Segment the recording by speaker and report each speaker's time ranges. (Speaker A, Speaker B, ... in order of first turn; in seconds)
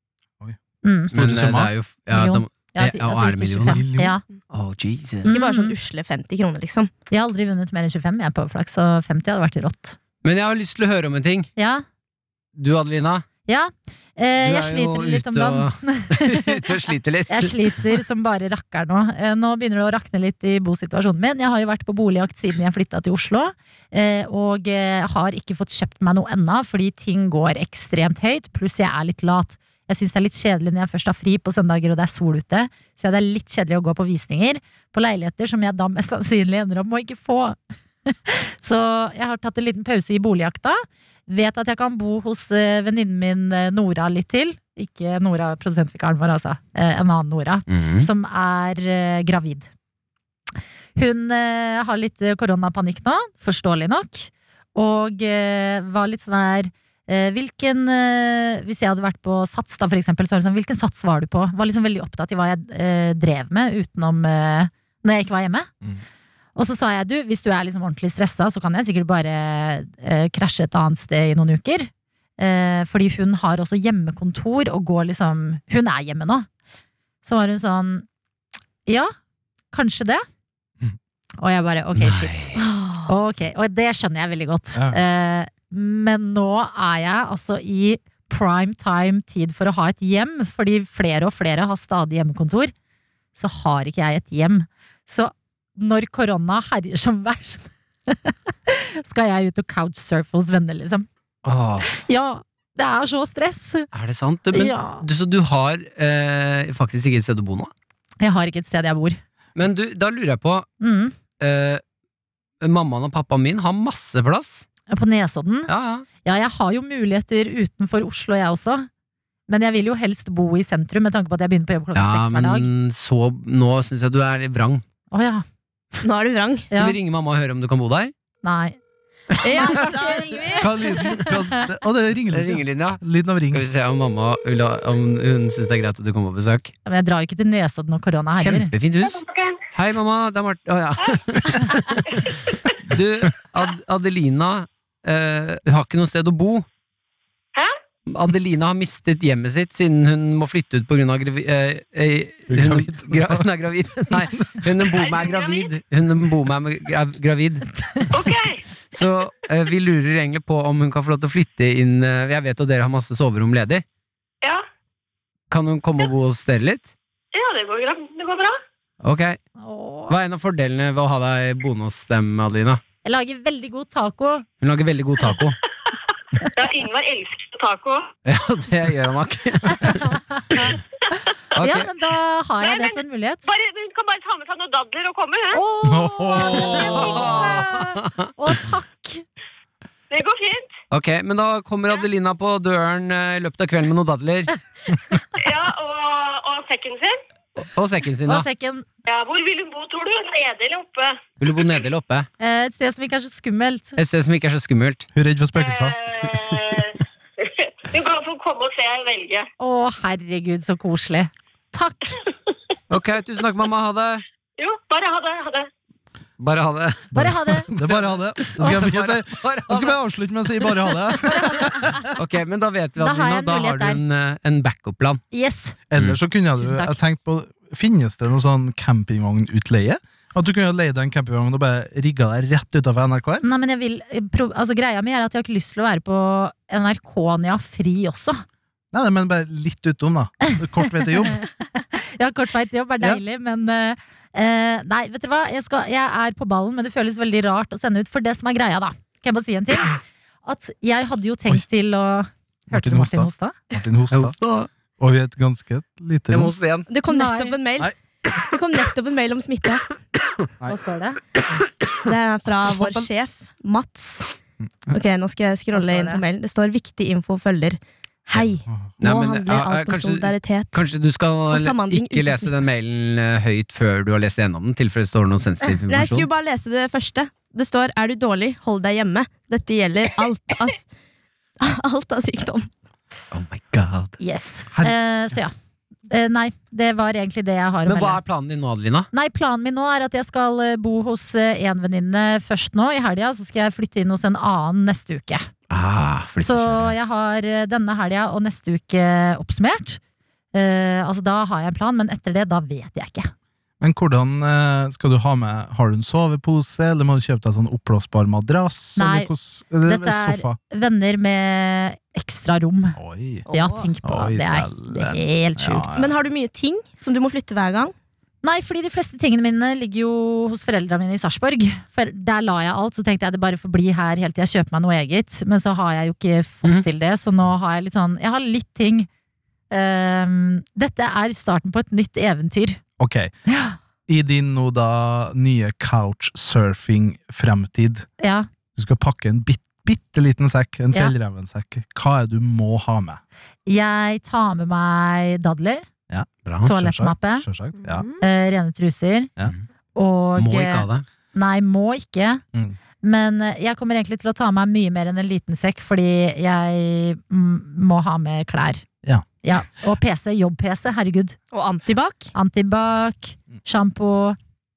Speaker A: 0.8-1.1, 2.1-4.2, 5.2-5.7, 7.1-10.0, 11.6-11.8, 13.5-16.7, 17.3-49.7, 51.0-65.7, 66.5-76.5, 77.2-78.0, 78.8-79.1, 79.7-80.2, 81.4-92.7, 93.3-101.1, 101.8-103.9, 104.5-105.0, 108.2-109.2, 110.8-111.1, 114.9-115.7, 116.2-118.9, 119.5-122.7, 125.1-125.4, 126.7-127.0, 128.4-128.8, 129.4-131.6, 136.8-138.7, 169.6-170.1, 173.0-174.4, 179.7-183.4, 185.5-189.2, 198.3-198.8, 202.4-204.0, 209.6-212.1, 217.1-217.7, 223.0-224.0, 225.3-225.8, 226.6-227.0, 233.4-238.4, 241.0-241.3, 241.8-253.6, 257.1-257.6, 260.7-261.2, 265.7-266.2, 284.2-285.5, 286.1-288.2, 289.1-295.4, 296.4-300.0, 300.5-303.3, 309.0-309.3, 309.8-313.0, 313.5-315.9, 318.4-329.1, 329.7-332.8, 333.5-333.8, 338.2-338.5, 343.6-345.8, 346.6-347.5, 348.2-349.3, 349.9-352.4, 353.0-358.8, 359.4-361.4, 362.3-364.4
Speaker B: 1.1-1.7, 3.6-4.2, 84.7-85.0, 130.5-133.7, 152.5-153.5, 154.1-154.4, 185.8-187.5, 205.1-206.0, 217.1-222.1, 225.9-233.4, 238.9-241.4, 252.7-254.4, 255.0-256.5, 262.7-263.1, 303.8-310.6, 312.9-313.4, 314.0-316.2, 333.0-333.3, 334.1-338.1, 338.8-343.2, 346.1-348.1
Speaker C: 1.1-3.8, 4.5-5.3, 10.2-11.5, 12.6-13.2, 14.4-17.9, 47.7-48.1, 82.0-82.6, 101.4-101.9, 103.9-107.7, 109.5-110.7, 111.4-111.8, 112.6-114.6, 115.7-116.0, 121.9-124.8, 126.7-128.1, 132.3-136.7, 138.3-146.7, 148.1-158.2, 158.9-163.8, 165.5-166.9, 169.0-169.4, 170.1-172.8, 174.6-175.6, 178.2-180.2, 181.5-181.9, 186.9-188.1, 190.9-194.5, 197.6-198.4, 201.4-202.3, 204.0-205.1, 212.9-214.2, 216.4-220.0, 220.6-225.2, 254.1-254.7, 256.3-256.9, 269.0-276.3, 283.3-284.2, 287.9-289.1, 295.7-296.9, 350.4-351.0
Speaker D: 5.3-6.9, 82.6-83.1, 126.0-126.7, 129.4-130.7, 256.9-259.9, 262.0-264.3, 264.9-270.9, 271.5-272.6, 275.9-280.9, 281.6-282.7, 313.5-313.9, 315.9-317.9, 347.8-348.2, 361.5-362.3
Speaker E: 139.1-139.6, 154.8-155.7, 158.1-158.6, 167.3-168.6, 176.5-178.1, 182.6-185.6, 190.1-190.7, 195.4-197.2, 199.0-201.2, 205.5-209.5, 214.6-215.7